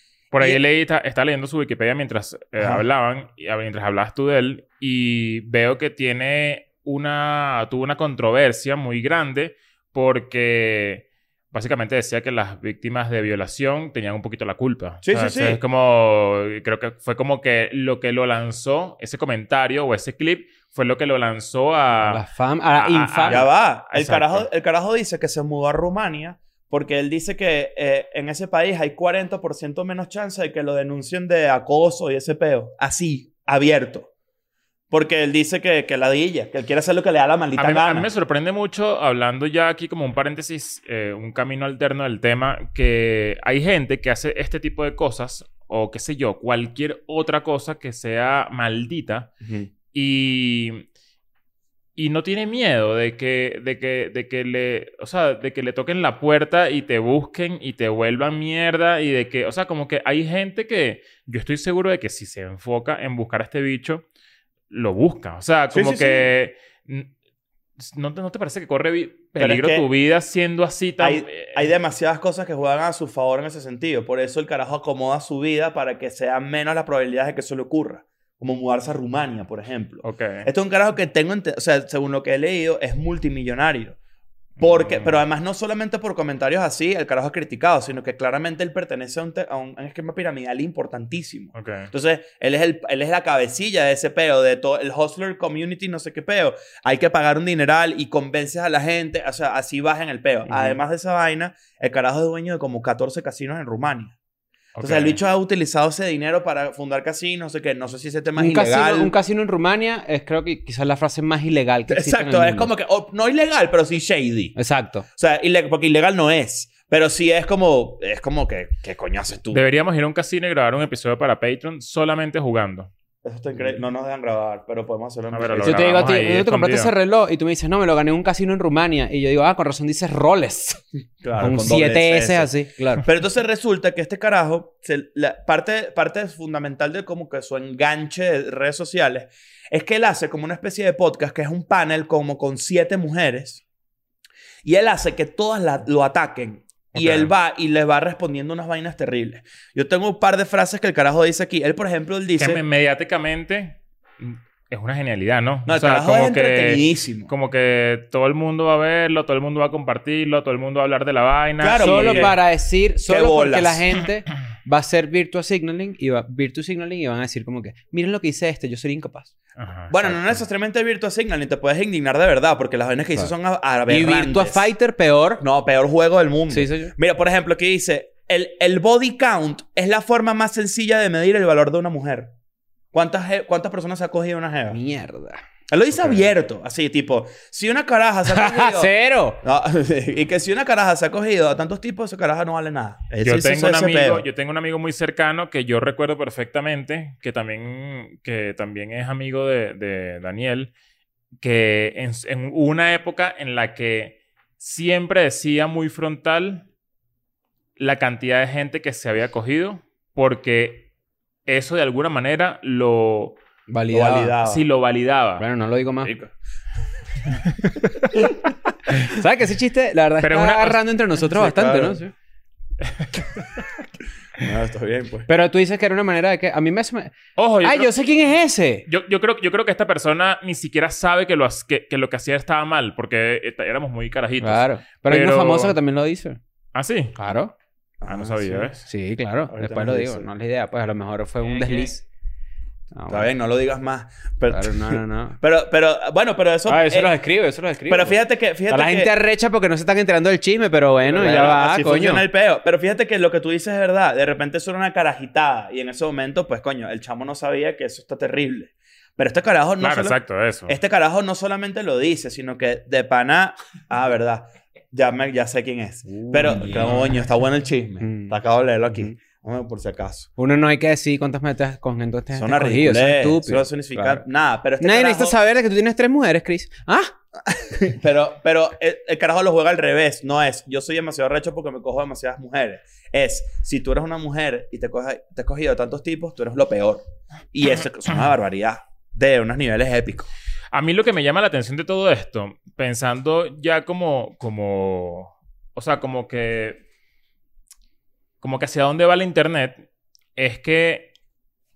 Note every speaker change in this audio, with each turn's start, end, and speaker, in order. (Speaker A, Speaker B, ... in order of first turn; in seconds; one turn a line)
Speaker A: 0.3-22.2
Speaker B: 2.6-2.8
Speaker B: 15.0-15.6
Speaker C: 22.0-23.5
Speaker A: 22.8-24.5
Speaker B: 23.3-34.1
Speaker B: 34.9-38.1
Speaker A: 37.6-49.3
Speaker B: 49.4-49.7
Speaker A: 49.9-50.9
Speaker A: 52.0-64.0
Speaker A: 64.7-67.1
Speaker B: 65.7-66.3
Speaker A: 67.8-71.7
Speaker B: 69.4-69.9
Speaker B: 71.0-84.0
Speaker A: 80.0-80.5
Speaker A: 84.6-85.2
Speaker B: 84.6-104.2
Speaker A: 91.5-91.9
Speaker A: 104.8-105.2
Speaker B: 104.8-109.1
Speaker C: 108.4-112.7
Speaker B: 111.9-114.6
Speaker C: 114.6-115.0
Speaker B: 115.2-119.6
Speaker A: 119.5-122.9
Speaker B: 123.2-126.0
Speaker A: 125.3-126.9
Speaker C: 125.6-130.8
Speaker B: 131.2-132.5
Speaker C: 131.4-133.1
Speaker B: 133.0-143.6
Speaker B: 144.6-152.6
Speaker A: 146.9-147.3
Speaker A: 152.4-162.3
Speaker B: 155.7-157.3
Speaker B: 161.6-162.4
Speaker C: 161.8-169.3
Speaker B: 163.0-163.9
Speaker A: 169.6-170.4
Speaker B: 169.9-174.7
Speaker C: 173.9-175.4
Speaker B: 175.4-182.3
Speaker C: 176.5-176.9
Speaker B: 182.9-184.8
Speaker C: 184.7-185.4
Speaker B: 185.7-194.2
Speaker C: 188.3-189.4
Speaker A: 193.2-200.7
Speaker A: 201.4-206.7
Speaker A: 207.8-210.9
Speaker A: 211.5-213.4
Speaker C: 213.7-214.3
Speaker B: 213.9-214.7
Speaker A: 214.4-215.4
Speaker C: 215.4-216.1
Speaker B: 216.0-216.3
Speaker C: 219.0-222.1
Speaker A: 220.2-220.8
Speaker B: 221.3-222.0
Speaker A: 222.9-223.5
Speaker B: 224.4-225.3
Speaker C: 225.3-228.9
Speaker A: 227.4-227.9
Speaker A: 228.9-235.8
Speaker C: 234.4-236.4
Speaker A: 236.8-237.1
Speaker C: 237.2-237.5
Speaker B: 238.0-238.7
Speaker A: 238.1-238.8
Speaker C: 238.9-242.0
Speaker B: 239.5-240.3
Speaker C: 242.9-243.3
Speaker B: 243.1-247.1
Speaker C: 244.5-245.4
Speaker C: 246.7-252.2
Speaker B: 247.9-249.1
Speaker B: 251.0-270.3
Speaker A: 259.8-260.8
Speaker C: 266.1-267.0
Speaker C: 268.0-268.4
Speaker C: 270.4-274.2
Speaker B: 272.3-275.4
Speaker C: 274.8-277.1
Speaker B: 277.5-290.3
Speaker A: 290.7-296.8
Speaker A: 298.4-299.8
Speaker A: 300.4-301.1